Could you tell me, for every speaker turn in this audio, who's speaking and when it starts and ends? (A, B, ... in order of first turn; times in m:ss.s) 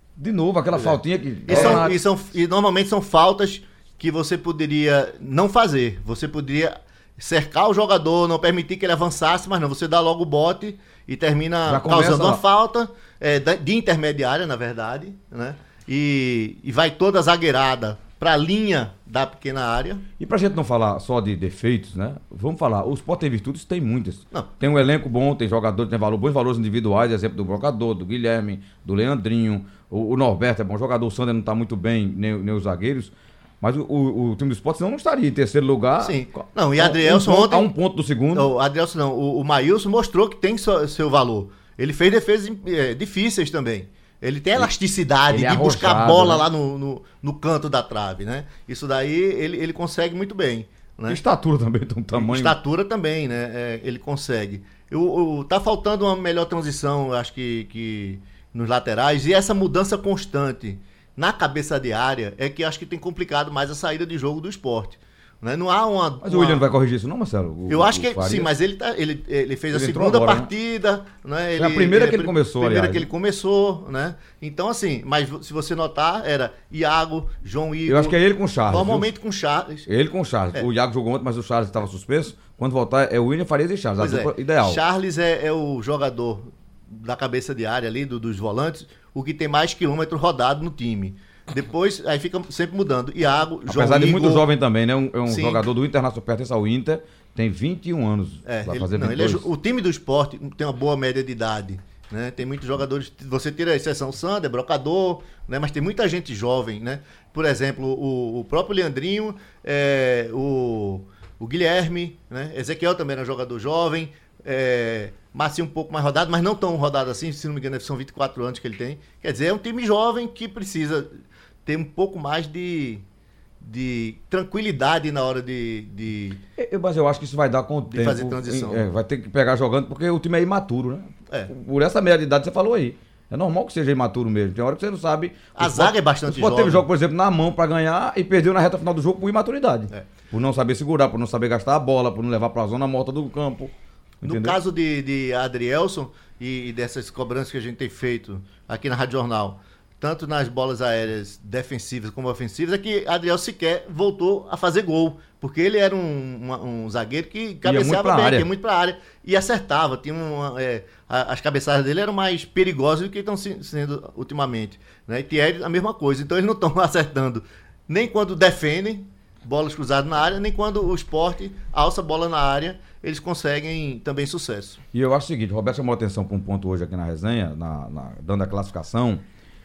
0:00.2-0:02.0 A
0:01.4-0:20.0 B
0:11.6-0:12.4 A
0:20.2-0:38.5 A
0:36.0-0:37.7 B
0:38.3-0:51.2 B
0:45.3-0:46.5 A
0:51.1-0:52.6 A
0:52.2-1:06.6 B
1:06.2-1:08.5 A
1:07.7-1:18.2 B
1:09.7-1:10.5 A
1:11.6-1:13.1 A
1:17.9-1:19.1 A
1:18.7-1:19.9 B
1:19.9-1:24.8 A
1:24.0-1:34.4 B
1:33.7-1:39.4 A
1:35.3-1:35.6 B
1:38.4-2:01.1 B
2:01.6-2:03.0 B
2:03.6-2:06.4 B
2:06.6-2:24.6 A
2:07.9-2:08.8 B
2:15.6-2:16.8 B
2:24.2-2:54.8 B
2:37.6-2:38.5 A
2:54.9-2:59.2 A